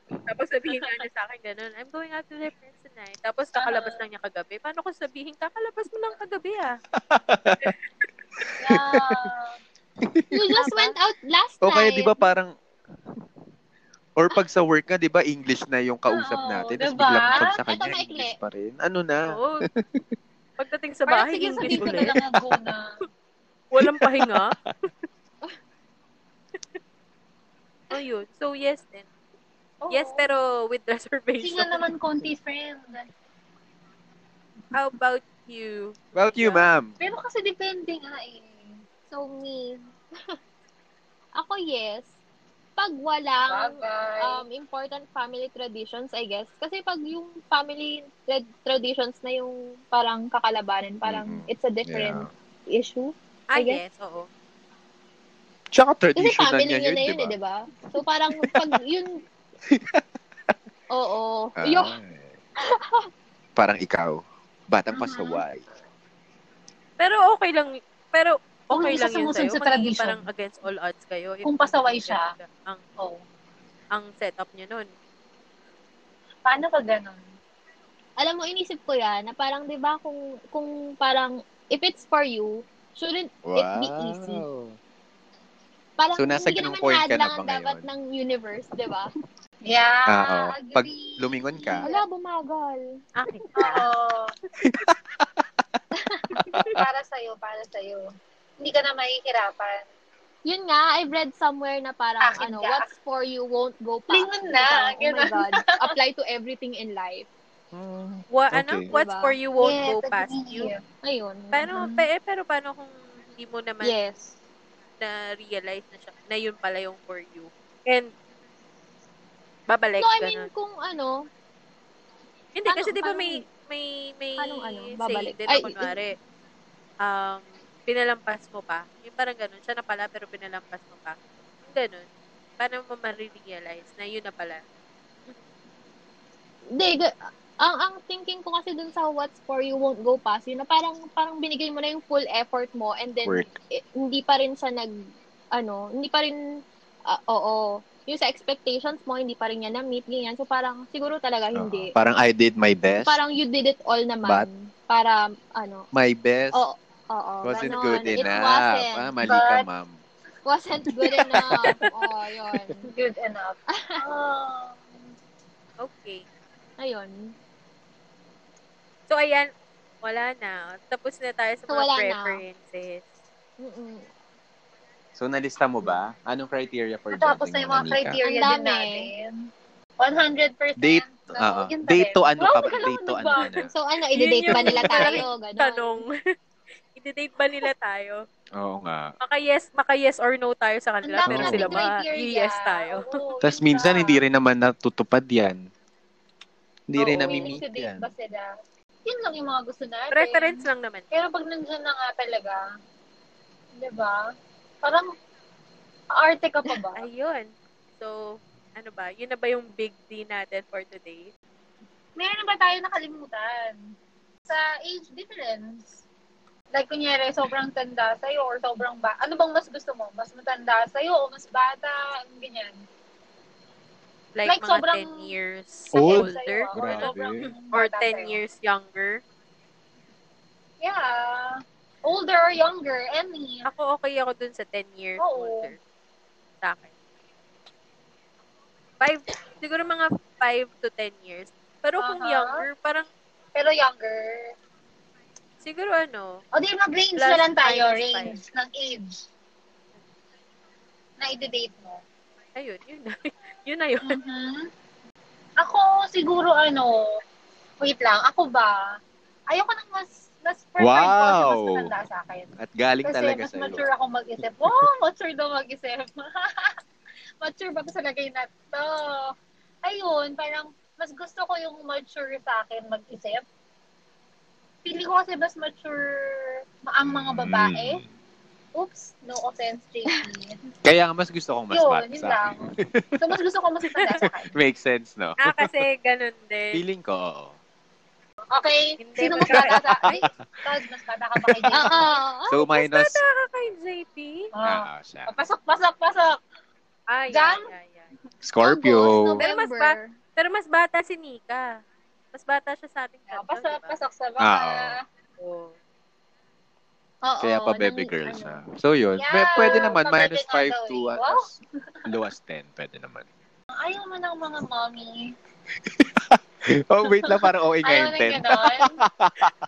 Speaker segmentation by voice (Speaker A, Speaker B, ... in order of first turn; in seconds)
Speaker A: 0.3-6.8, 10.6-10.9, 19.3-19.6, 20.6-22.1, 23.7-24.5, 27.9-29.1, 29.9-31.9, 34.7-36.7, 53.5-54.3, 67.0-72.8, 73.9-74.9, 93.2-93.5, 108.3-110.7, 111.5-113.9, 115.0-118.1, 119.7-120.5, 122.5-126.1, 127.0-132.1, 132.6-134.6, 157.9-158.3, 165.8-166.2, 169.1-169.5, 170.0-173.0, 184.1-186.1, 186.9-188.2, 189.2-193.2, 197.0-197.6, 200.1-201.1, 206.9-211.3, 224.3-227.2, 227.7-229.2, 233.6-235.8, 236.6-236.9, 239.0-243.1, 245.6-246.4, 247.2-248.4, 252.6-254.2, 283.9-284.2, 285.4-286.8, 289.0-290.2, 292.7-294.5, 297.1-298.1, 299.4-301.8, 302.3-303.9, 305.4-305.7
Speaker B: 3.6-4.0, 8.6-9.6, 16.1-17.5, 21.1-22.9, 29.8-30.2, 31.4-33.1, 37.0-38.8, 43.5-44.4, 64.9-65.4, 68.7-70.2, 71.4-72.3, 76.4-77.2, 89.7-92.0, 93.5-94.3, 96.6-98.0, 98.6-99.8, 102.2-102.8, 104.1-105.6, 109.6-110.8, 111.7-112.1, 159.2-159.7, 161.2-161.5, 162.8-164.8, 177.1-179.3, 180.0-183.5, 184.4-185.2, 191.0-194.2, 197.0-198.5, 199.1-202.6, 203.8-204.2, 206.2-207.0, 212.2-213.8, 214.5-216.0, 216.7-222.8, 224.4-225.3, 225.9-228.4, 230.8-233.7, 235.2-235.7, 242.0-242.6, 243.5-244.4, 246.5-249.3, 251.2-252.0, 254.0-254.7, 255.6-257.0, 257.8-258.8, 259.5-262.5, 263.0-266.7, 267.4-269.3, 269.8-273.4, 274.8-278.0, 278.8-280.5, 281.7-282.6, 283.2-284.6, 288.5-292.2, 294.5-296.4, 297.3-297.7, 303.3-305.0, 309.2-311.4, 313.8-315.2, 317.8-318.9
Speaker C: 7.0-7.7, 8.4-9.3, 10.0-10.3, 11.6-12.5, 14.2-19.4, 21.6-22.6, 23.8-24.7, 36.1-36.9, 51.0-52.3, 55.7-57.3, 59.7-60.5, 61.6-62.3, 63.5-65.6, 83.5-84.8, 86.2-87.8, 90.1-91.8, 94.6-95.4, 96.3-96.8, 107.7-108.9, 143.2-143.5, 151.6-153.2, 155.9-156.6, 157.4-159.9, 175.1-178.2, 180.8-183.7, 188.6-189.1, 191.3-191.8, 193.4-195.6, 196.9-198.1, 225.9-227.5, 260.8-261.9, 262.6-263.9, 277.1-278.1, 280.8-283.2, 284.2-285.7, 286.7-287.6, 289.5-290.3, 291.4-291.9, 292.5-293.2, 294.6-295.3, 298.4-299.4, 304.4-305.0, 307.4-313.3, 315.9-319.5
Speaker D: 10.3-12.2, 17.7-18.4, 39.1-39.8, 41.4-42.1, 42.8-53.8, 56.1-59.1, 60.9-61.9, 62.7-63.1, 78.2-84.4, 86.0-89.1, 91.8-92.8, 96.0-96.5, 100.5-107.3, 108.9-109.3, 111.0-111.7, 113.8-114.3, 120.0-121.1, 122.7-123.4, 124.4-125.9, 136.7-144.9, 145.6-146.3, 147.1-151.9, 153.0-155.8, 156.5-159.1, 160.4-162.8, 166.8-167.1, 171.7-172.4, 173.6-174.1, 178.2-179.0, 183.7-186.0, 291.7-292.6, 298.6-300.1, 307.2-308.6